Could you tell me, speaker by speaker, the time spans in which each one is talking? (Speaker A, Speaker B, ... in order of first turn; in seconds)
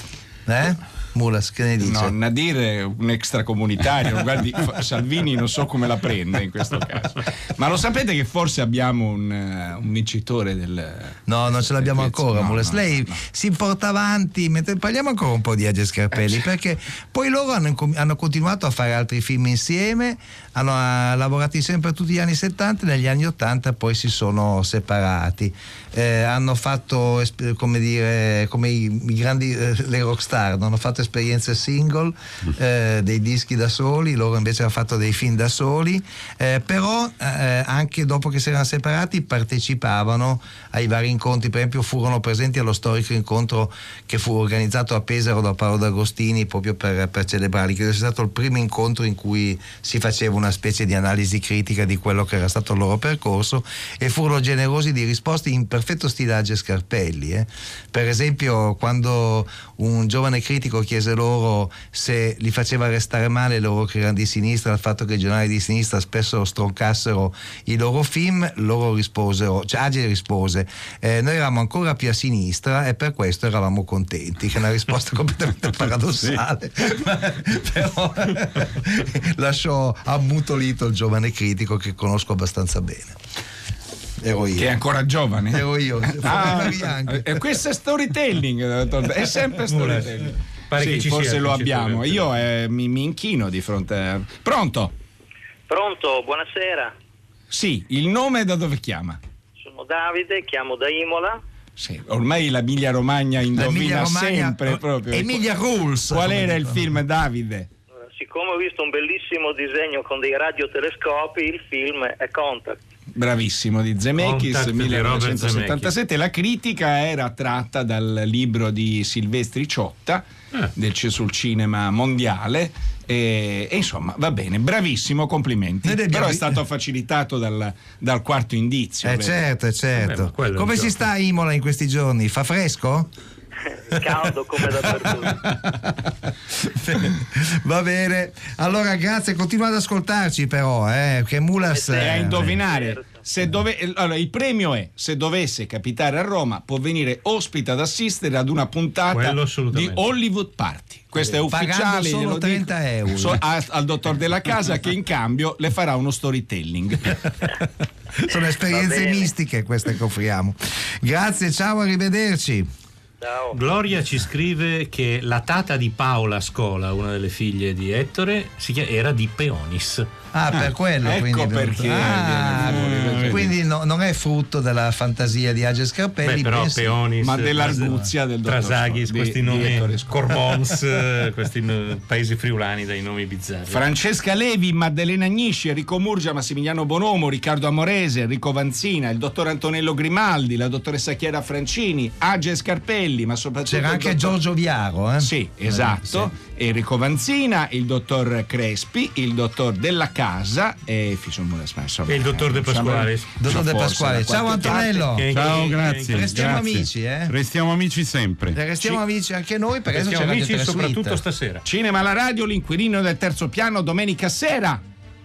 Speaker A: 0.5-2.1, 11.3-83.2, 84.2-84.7, 85.5-87.5, 103.5-106.9, 125.8-126.6, 129.0-133.1, 134.0-142.6, 151.5-153.4, 158.2-162.7, 170.3-177.0, 177.6-178.1, 193.7-196.3, 203.4-207.3, 208.5-211.2
Speaker B: 1.8-13.2, 84.6-94.9, 97.5-99.2, 101.8-105.5, 106.0-107.7, 113.1-120.2, 120.8-129.3, 141.8-157.2, 171.0-173.5, 177.2-180.5, 183.7-194.4, 195.2-205.1, 211.7-214.8
Speaker C: 89.7-90.1, 90.7-92.3, 114.2-115.9, 129.9-131.0, 149.1-150.1, 163.5-170.1, 176.2-183.9, 202.1-203.3, 204.6-206.6, 209.9-211.6
Speaker D: 95.7-96.9, 99.6-101.4, 108.1-112.8, 133.8-135.4, 141.6-142.0, 142.6-143.2, 158.7-159.3, 163.2-163.6
Speaker E: 172.8-173.4, 205.3-208.6